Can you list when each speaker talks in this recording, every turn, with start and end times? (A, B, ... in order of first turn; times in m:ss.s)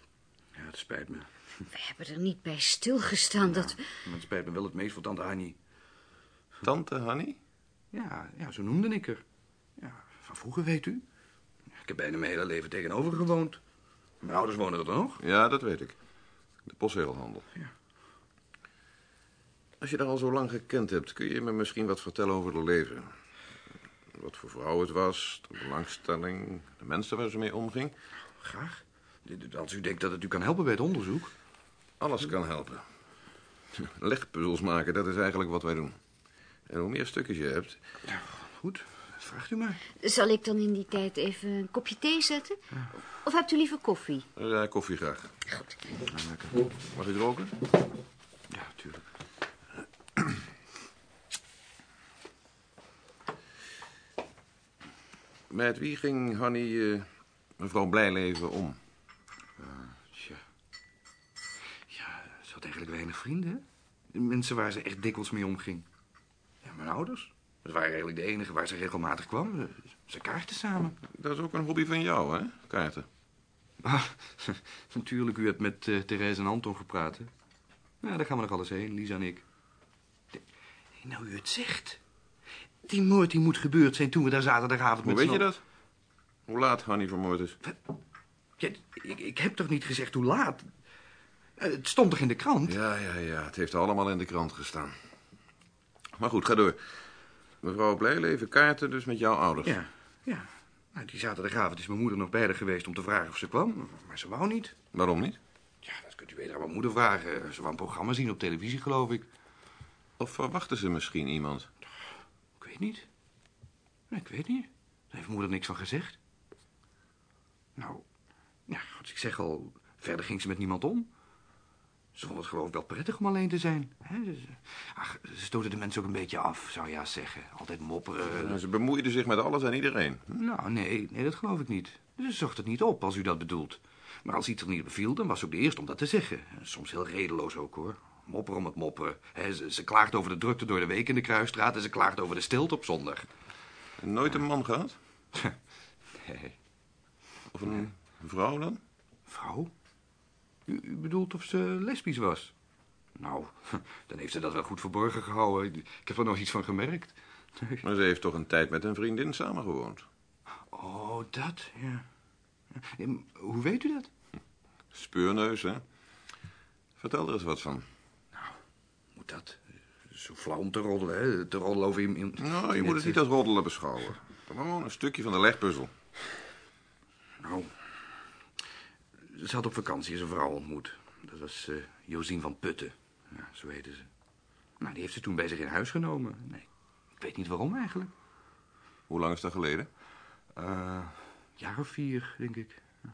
0:00.6-0:01.3 A
0:01.7-0:03.8 B
0:03.4-0:05.6 A
0:06.6-0:07.4 C
0:07.9-0:09.2 A
0:09.8-0:11.0 A
0:11.8-0:13.6 A
0:14.2-0:15.2 A
0:15.2-0:16.0 C
0:16.7-0:17.5 C
0:19.8-0:23.1 C
0:24.1-0:27.9 C
0:28.4-0:31.3 A
0:32.0-0:32.8 C
0:33.8-0:36.0 C
0:36.7-0:37.8 C
0:38.1-0:39.8 A
0:40.0-0:42.6 B
0:43.2-0:44.2 B
0:44.4-0:45.3 C
0:46.1-0:46.7 A
0:46.9-0:47.5 C
0:48.5-0:49.0 A
0:55.5-0:57.1 C
0:57.6-0:58.8 C
0:59.6-1:00.4 A
1:01.9-1:05.9 A
1:06.6-1:11.0 A
1:11.1-1:13.1 C
1:13.8-1:17.3 A
1:18.0-1:19.4 A
1:21.0-1:22.0 A
1:22.8-1:25.5 A
1:25.0-1:25.6 C
1:26.5-1:27.6 C
1:28.6-1:30.7 A
1:31.6-1:32.8 A
1:32.7-1:34.9 C
1:36.2-1:36.8 C
1:37.6-1:39.7 C
1:39.6-1:44.7 A
1:44.9-1:45.4 C
1:45.8-1:49.3 A
1:50.2-1:51.7 C
1:52.6-1:53.0 A
1:54.1-1:56.2 A
1:57.8-1:58.0 A
1:58.7-2:01.1 A
2:02.2-2:08.6 A
2:08.3-2:10.4 C
2:10.4-2:23.3 A
2:24.0-2:25.0 C
2:26.1-2:26.6 A
2:27.5-2:28.8 C
2:29.3-2:29.7 A
2:30.7-2:32.5 A
2:33.2-2:37.8 A
2:37.8-2:40.1 C
2:40.7-2:42.1 A
2:42.7-2:44.1 A
2:44.9-2:45.8 C
2:47.0-2:47.9 C
2:49.2-2:53.2 A
2:52.4-2:55.9 C
2:57.4-2:57.7 A
2:59.3-3:04.1 A
3:04.8-3:06.7 A
3:07.2-3:08.1 A
3:09.1-3:09.9 C
3:10.6-3:12.8 A